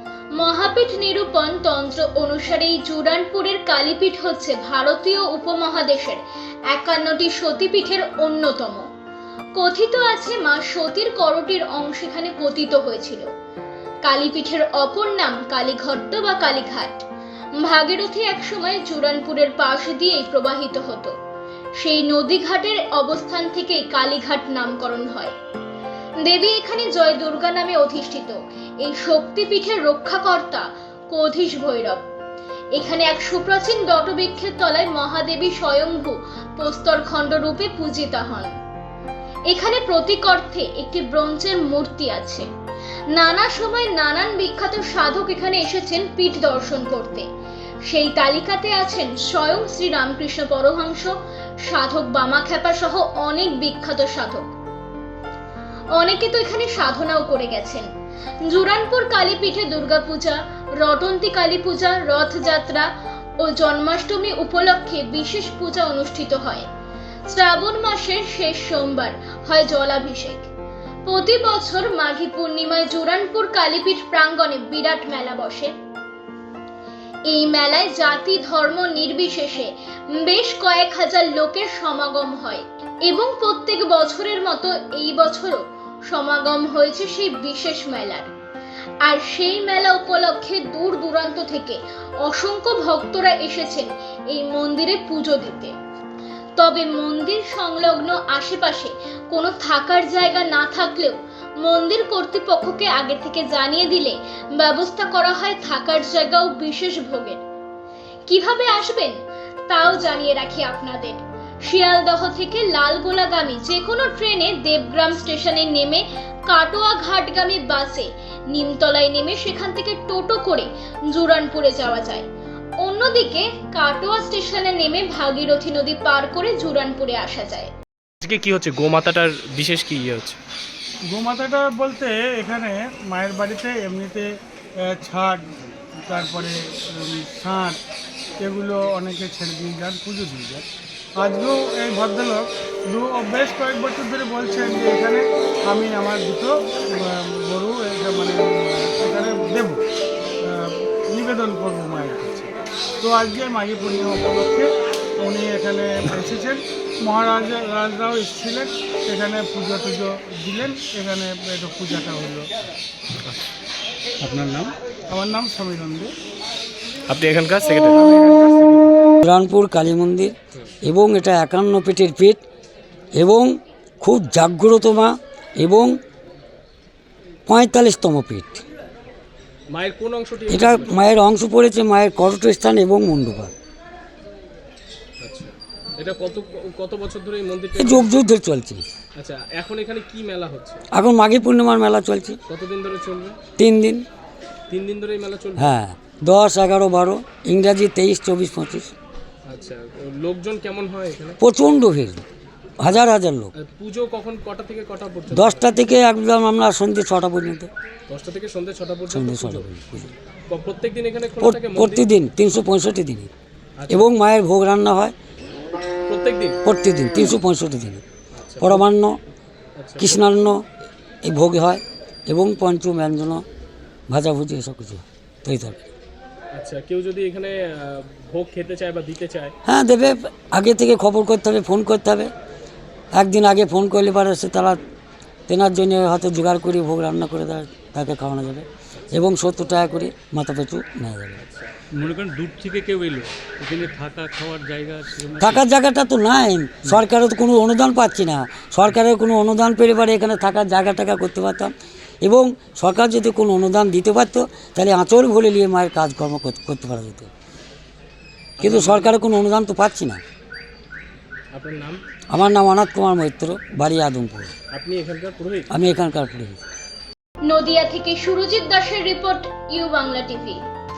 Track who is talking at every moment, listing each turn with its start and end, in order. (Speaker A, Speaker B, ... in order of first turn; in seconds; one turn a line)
Speaker A: 0.3-8.9
Speaker A: 9.6-13.3
Speaker A: 14.0-17.0
Speaker A: 17.6-21.1
Speaker A: 21.8-25.3
Speaker A: 26.2-32.0
Speaker A: 32.7-38.5
Speaker A: 39.5-42.5
Speaker A: 43.1-47.2
Speaker A: 47.9-51.1
Speaker A: 51.7-54.5
Speaker A: 55.9-57.9
Speaker A: 58.5-62.9
Speaker A: 63.4-66.7
Speaker A: 67.3-70.5
Speaker A: 71.0-75.7
Speaker A: 77.3-88.3
Speaker A: 89.0-95.7
Speaker A: 96.6-107.4
Speaker A: 108.2-109.2
Speaker A: 109.7-122.2
Speaker A: 122.8-127.7
Speaker B: 128.2-130.4
Speaker C: 131.1-134.3
Speaker C: 134.9-137.8
Speaker C: 138.4-140.7
Speaker C: 141.2-149.8
Speaker C: 150.4-154.7
Speaker C: 155.2-162.5
Speaker C: 164.2-166.1
Speaker B: 167.1-168.0
Speaker C: 168.0-168.9
Speaker D: 169.2-172.4
Speaker D: 173.1-175.9
Speaker D: 177.5-178.6
Speaker B: 179.7-181.0
Speaker D: 180.5-183.5
Speaker B: 185.2-188.1
Speaker D: 187.8-188.8
Speaker B: 189.2-190.8
Speaker D: 190.9-192.4
Speaker B: 192.5-193.4
Speaker D: 193.6-194.0
Speaker B: 194.7-195.7
Speaker D: 195.6-198.9
Speaker B: 199.5-201.4
Speaker D: 201.4-202.2
Speaker D: 202.8-203.5
Speaker B: 203.6-205.7
Speaker D: 205.3-207.7
Speaker B: 208.1-209.7
Speaker D: 209.1-210.1
Speaker B: 210.5-212.1
Speaker D: 211.4-213.3
Speaker B: 213.8-214.1
Speaker D: 213.9-215.1
Speaker B: 216.1-216.6
Speaker D: 216.6-218.0
Speaker B: 218.3-218.8
Speaker D: 218.6-219.2
Speaker B: 219.8-220.2
Speaker D: 220.0-220.6
Speaker D: 221.2-223.4
Speaker D: 224.1-225.8
Speaker B: 226.5-229.5
Speaker D: 229.6-232.3
Speaker D: 233.1-234.8
Speaker D: 235.5-241.4
Speaker B: 238.9-239.3
Speaker B: 241.4-241.7
Speaker E: 242.0-245.7
Speaker D: 245.4-251.7
Speaker D: 252.2-257.3
Speaker B: 258.6-259.1
Speaker D: 258.6-260.2
Speaker B: 261.5-262.0
Speaker D: 262.3-264.5
Speaker B: 264.7-265.7
Speaker D: 265.7-266.6
Speaker A: 267.4-270.6